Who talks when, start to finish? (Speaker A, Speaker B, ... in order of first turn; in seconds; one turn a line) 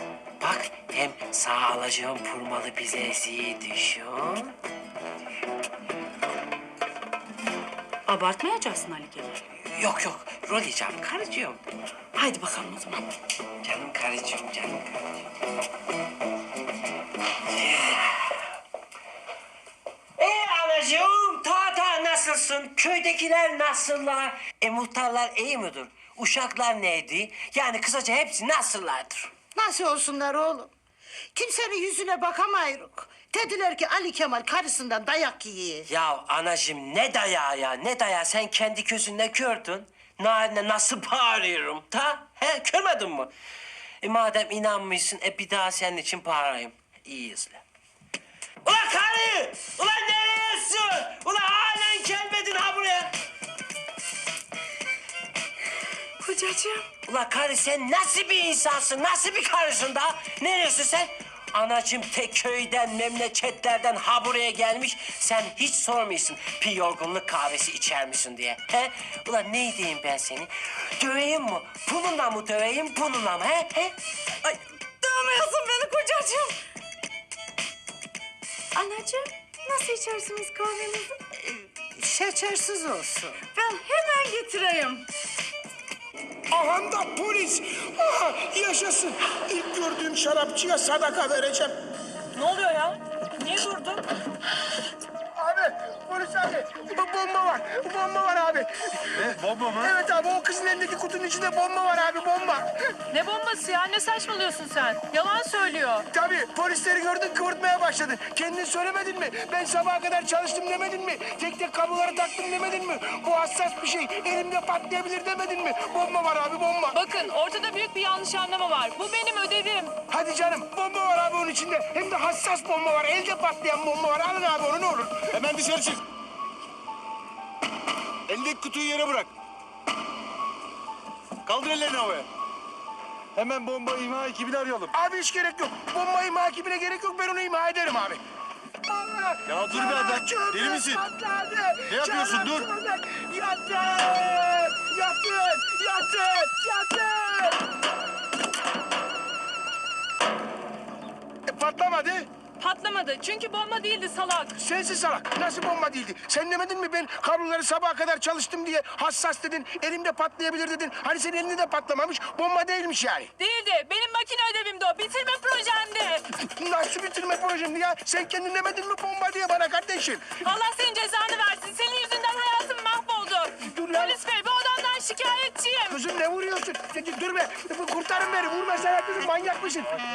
Speaker A: 0.4-4.6
Speaker B: 8.1-9.4
Speaker A: 9.6-11.6
Speaker B: 12.2-13.1
Speaker A: 13.6-15.2
Speaker A: 17.5-18.6
Speaker A: 20.2-29.3
Speaker C: 29.6-30.7
Speaker C: 31.3-35.9
Speaker A: 35.9-43.3
Speaker A: 44.0-47.6
Speaker A: 48.6-53.1
Speaker B: 56.2-56.8
Speaker A: 57.0-74.0
Speaker B: 79.8-80.0
Speaker C: 82.0-83.3
Speaker D: 86.5-91.8
Speaker E: 92.3-94.1
Speaker D: 95.4-102.7
Speaker F: 99.2-99.9
Speaker E: 103.1-106.1
Speaker D: 106.1-117.2
Speaker E: 116.9-120.0
Speaker D: 120.1-125.4
Speaker F: 125.3-126.0
Speaker F: 128.3-129.3
Speaker F: 131.4-132.3
Speaker F: 133.3-134.9
Speaker D: 134.9-138.2
Speaker D: 138.9-147.6
Speaker F: 139.5-141.0
Speaker F: 141.9-142.7
Speaker D: 151.5-152.3
Speaker E: 152.6-154.5
Speaker D: 154.6-163.3
Speaker E: 163.4-166.3
Speaker D: 166.5-170.4
Speaker E: 170.4-176.0
Speaker D: 173.7-174.2
Speaker D: 175.9-179.9